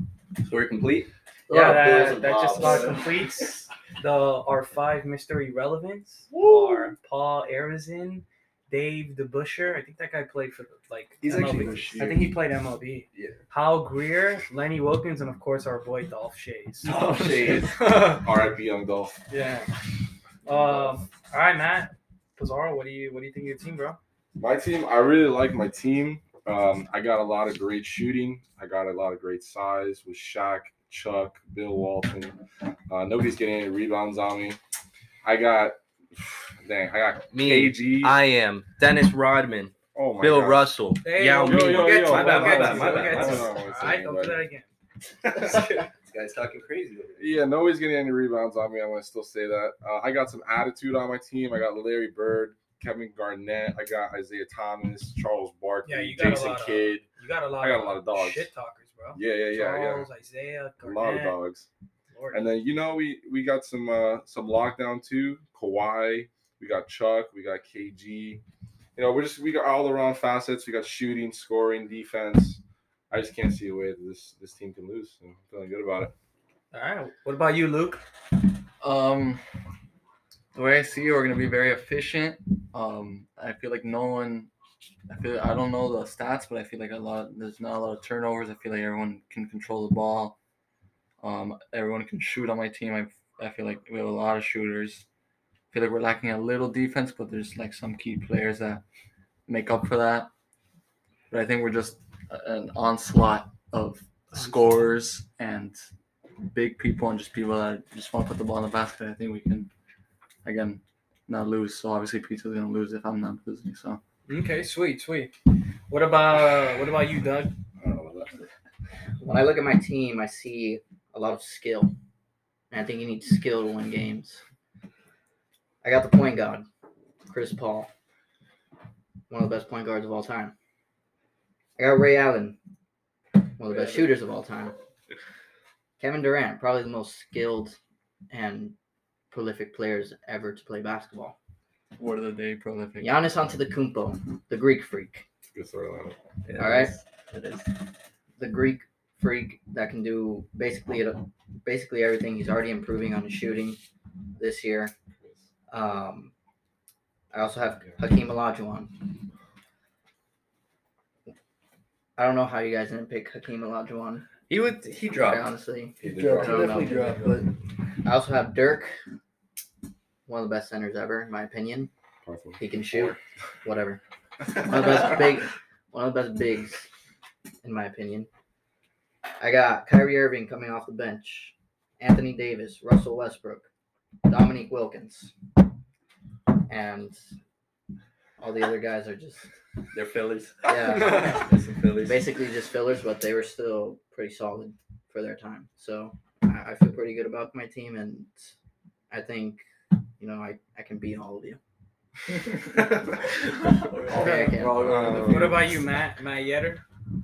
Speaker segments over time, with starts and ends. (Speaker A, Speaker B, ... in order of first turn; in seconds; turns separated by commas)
Speaker A: 0.4-3.5, Speaker B: 1.5-3.0, Speaker C: 1.5-18.3, Speaker A: 6.3-6.9, Speaker A: 11.2-12.2, Speaker D: 11.5-12.3, Speaker A: 13.1-13.4, Speaker A: 16.8-17.8, Speaker D: 17.8-19.2, Speaker C: 19.3-19.7, Speaker C: 20.4-24.0, Speaker D: 24.4-32.4, Speaker D: 32.9-34.6, Speaker D: 35.2-38.2, Speaker A: 37.3-43.6, Speaker D: 39.9-40.7, Speaker C: 41.0-44.7, Speaker D: 41.3-44.5, Speaker A: 45.2-47.2, Speaker C: 45.4-45.9, Speaker D: 47.2-57.1, Speaker C: 55.8-61.4, Speaker D: 57.6-58.5, Speaker D: 59.1-60.1, Speaker D: 60.8-61.7, Speaker C: 62.1-62.5, Speaker D: 62.3-68.4, Speaker D: 69.0-76.1, Speaker C: 76.7-78.0, Speaker E: 78.8-79.5, Speaker E: 80.5-84.5, Speaker E: 85.1-90.4, Speaker E: 91.2-95.0, Speaker E: 95.7-98.8, Speaker E: 99.5-100.3, Speaker E: 101.3-105.8, Speaker E: 106.4-109.7, Speaker E: 110.4-114.0, Speaker C: 114.3-115.3, Speaker C: 115.9-117.5, Speaker D: 117.8-118.5, Speaker B: 119.2-121.9, Speaker B: 122.7-124.4, Speaker B: 125.8-126.7, Speaker B: 127.3-127.9, Speaker B: 129.3-130.5, Speaker B: 131.8-132.6, Speaker B: 133.6-134.7, Speaker E: 133.7-134.2, Speaker B: 136.0-137.8, Speaker B: 138.3-138.8, Speaker B: 139.3-141.3, Speaker E: 142.0-143.3, Speaker B: 143.0-145.2, Speaker D: 145.5-146.2, Speaker A: 146.4-147.7, Speaker B: 146.6-146.9, Speaker B: 148.4-153.8, Speaker B: 154.4-154.9, Speaker B: 155.7-156.3, Speaker B: 157.3-159.0, Speaker B: 162.2-164.3, Speaker A: 164.5-165.5, Speaker B: 165.2-169.0, Speaker D: 166.0-166.9, Speaker E: 166.1-167.4, Speaker B: 170.3-171.9, Speaker D: 172.2-173.1, Speaker B: 172.6-174.0, Speaker B: 174.5-176.9, Speaker B: 177.6-178.3, Speaker B: 179.4-183.7, Speaker B: 184.3-185.3, Speaker B: 186.7-187.2, Speaker B: 188.4-189.5, Speaker A: 189.9-192.3, Speaker B: 190.7-191.5, Speaker B: 192.0-198.5, Speaker B: 199.1-199.6, Speaker B: 200.2-201.6, Speaker E: 203.7-205.6, Speaker B: 204.1-205.4, Speaker C: 204.2-204.6, Speaker A: 204.8-205.5, Speaker C: 205.2-206.8